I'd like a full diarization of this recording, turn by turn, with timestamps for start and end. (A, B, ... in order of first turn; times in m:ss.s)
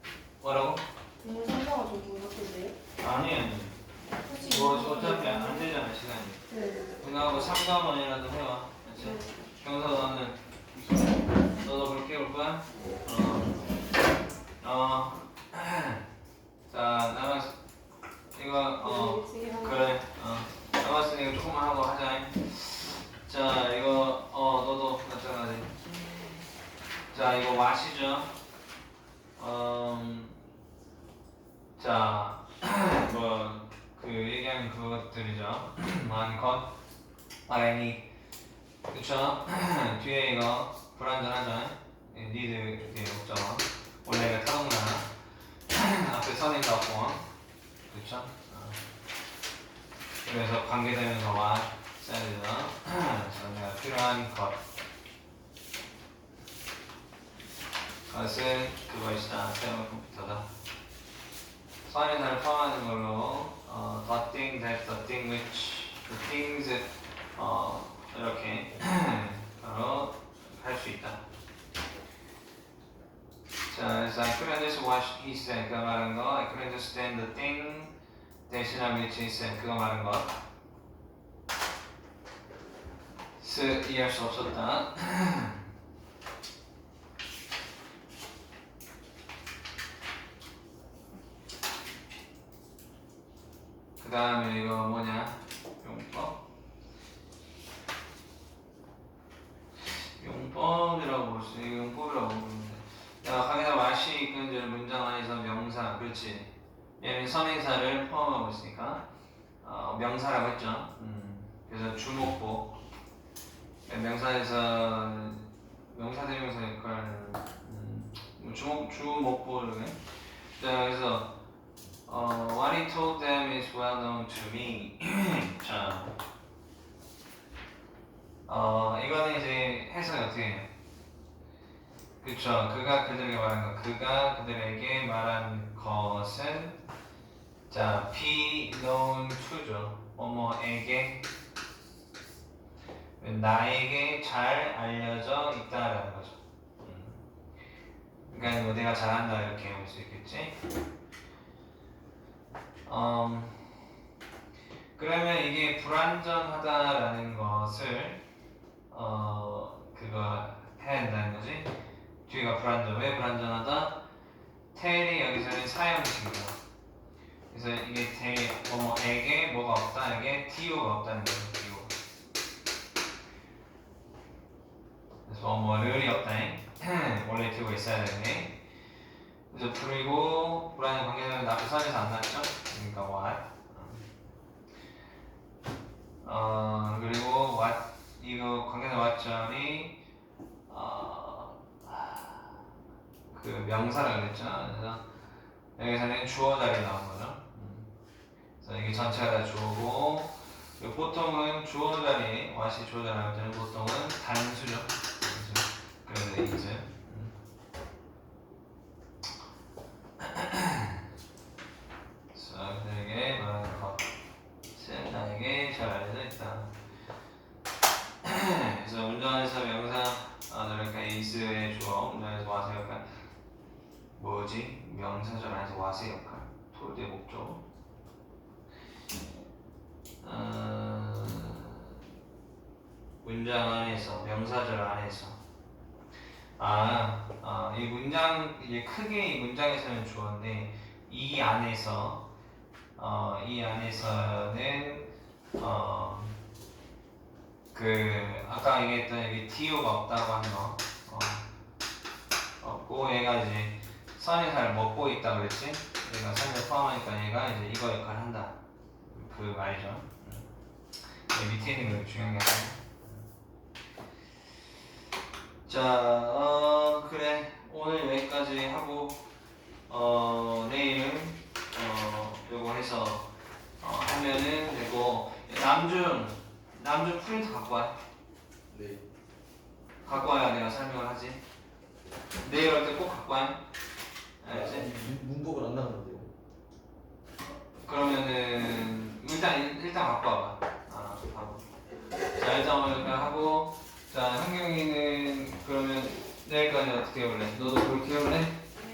0:00.4-0:00.8 A
0:01.2-0:02.7 B
0:03.0-0:03.8 A
0:04.2-0:05.7 B
0:04.4-0:06.4 A
0:06.5-0:06.8 B
0:07.0-0:10.4 A
0:11.6-0:13.7 A
0:14.6-0:16.0 A
0:16.7-0:17.5 A
0:18.3-0:25.8 A
0:18.8-0:19.8 B
0:27.1-0:28.3 A
0:29.4-0:30.4 A
0:31.8-0:36.7 A
0:37.5-0:38.1 A
0:38.9-0:45.1 A
0:45.7-0:47.2 A
0:47.9-0:48.8 A
0:50.2-0:54.6 A
0:58.1-1:00.5 A
1:01.8-1:11.2 A
1:13.7-1:17.9 A
1:18.5-1:20.4 A
1:23.4-1:25.6 A
1:34.0-1:36.4 A
1:39.9-1:49.0 A
1:49.6-1:52.8 A
1:53.9-2:00.0 A
2:00.6-2:01.3 A
2:02.1-2:06.2 A
2:08.5-2:10.7 A
2:12.2-2:16.8 A
2:17.7-2:21.2 A
2:23.2-2:27.2 A
2:28.3-2:30.6 A
2:32.9-2:33.7 A
2:35.0-2:38.2 A
2:38.9-2:41.7 A
2:42.3-2:44.0 A
2:44.7-2:46.6 A
2:47.5-2:51.9 A
2:55.3-2:58.6 A
2:59.5-3:04.1 A
3:06.2-3:10.0 A
3:10.7-3:12.5 A
3:13.3-3:15.0 A
3:15.8-3:17.9 A
3:18.6-3:27.3 A
3:30.2-3:31.0 A
3:32.3-3:34.1 A
3:34.7-3:36.7 A
3:38.2-3:43.0 A
3:44.2-3:47.6 A
3:50.2-3:51.9 A
3:53.2-3:55.4 A
3:56.6-4:02.2 A
4:03.0-4:06.4 A
4:07.7-4:11.4 A
4:12.6-4:20.5 A
4:21.3-4:23.3 A
4:25.7-4:29.2 A
4:29.9-4:33.3 A
4:33.8-4:37.9 A
4:38.7-4:39.0 C
4:40.0-4:41.4 A
4:42.4-4:43.6 A
4:44.4-4:44.9 A
4:44.5-4:46.3 C
4:47.9-4:51.7 A
4:52.4-4:58.6 A